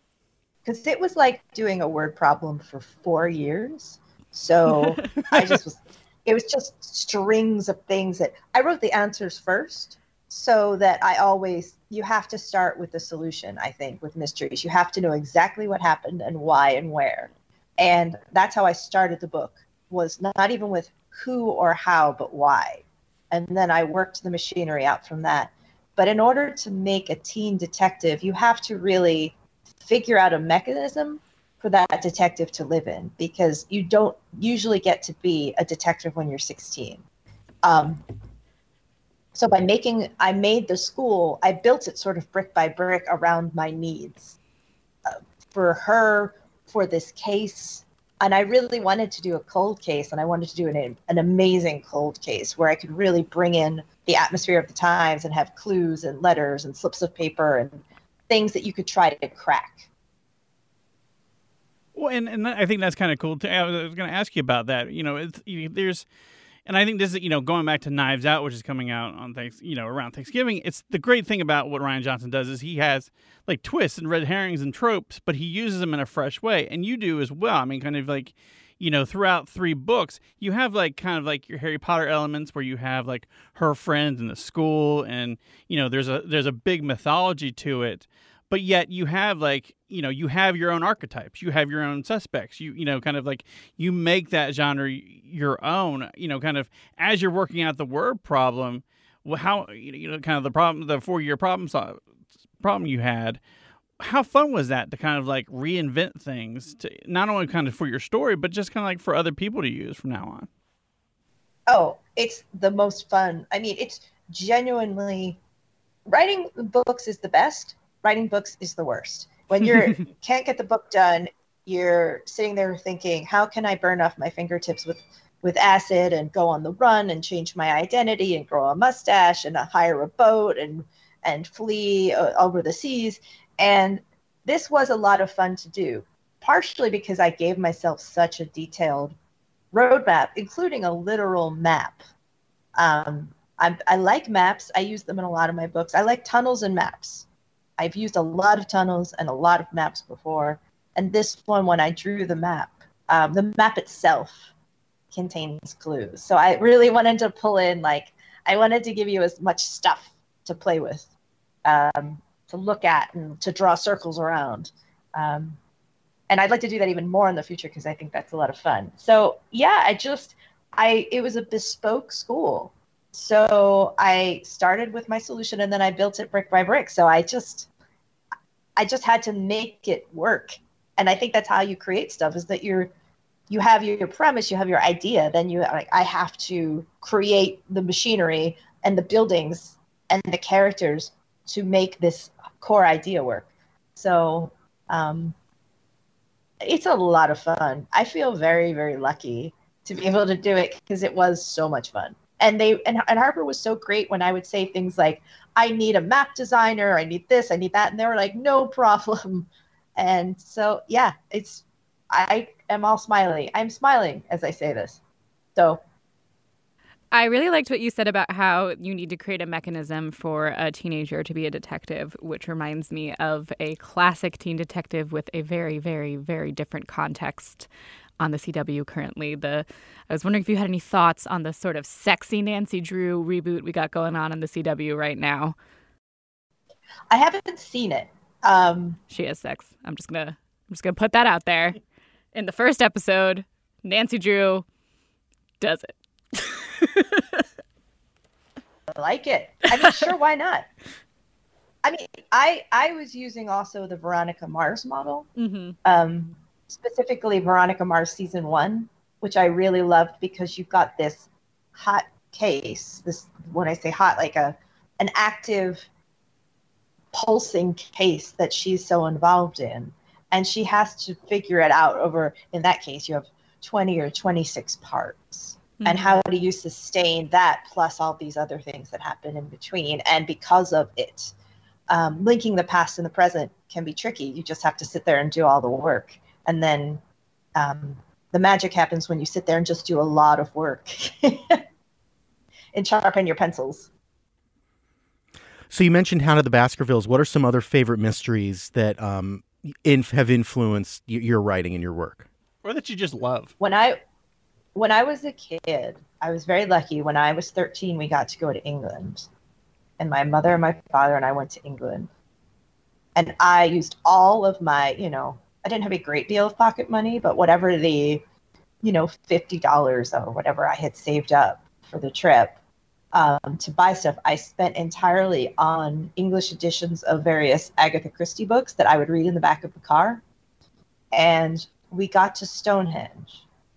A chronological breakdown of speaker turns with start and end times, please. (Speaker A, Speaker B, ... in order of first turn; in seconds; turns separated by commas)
Speaker A: 0.7-37.0, Speaker A: 37.6-38.0, Speaker A: 39.4-44.4, Speaker A: 45.1-59.9, Speaker B: 62.0-66.1, Speaker B: 66.7-102.0, Speaker B: 102.6-103.4, Speaker B: 104.0-110.5, Speaker A: 111.7-115.4, Speaker A: 116.1-139.2, Speaker A: 139.7-142.1, Speaker A: 142.8-147.3, Speaker A: 147.8-154.5, Speaker A: 155.1-161.1, Speaker A: 161.7-165.6, Speaker A: 166.3-177.7, Speaker A: 178.8-182.9, Speaker A: 183.5-195.3, Speaker A: 196.6-215.0, Speaker C: 217.1-227.7, Speaker C: 228.2-235.6, Speaker A: 237.1-239.0, Speaker C: 239.1-241.8, Speaker C: 242.3-244.7, Speaker C: 245.6-246.0, Speaker A: 248.9-250.7, Speaker A: 251.8-255.3, Speaker C: 255.4-255.8, Speaker A: 255.8-265.9, Speaker A: 267.1-281.3, Speaker C: 275.8-276.2, Speaker A: 281.9-287.0, Speaker A: 287.6-291.6, Speaker A: 292.7-293.9, Speaker D: 295.7-302.3, Speaker B: 302.6-303.5, Speaker A: 303.6-304.0, Speaker A: 304.8-309.3, Speaker A: 310.0-312.1, Speaker A: 313.1-318.2, Speaker A: 318.8-322.6, Speaker A: 323.1-330.2, Speaker A: 331.1-333.4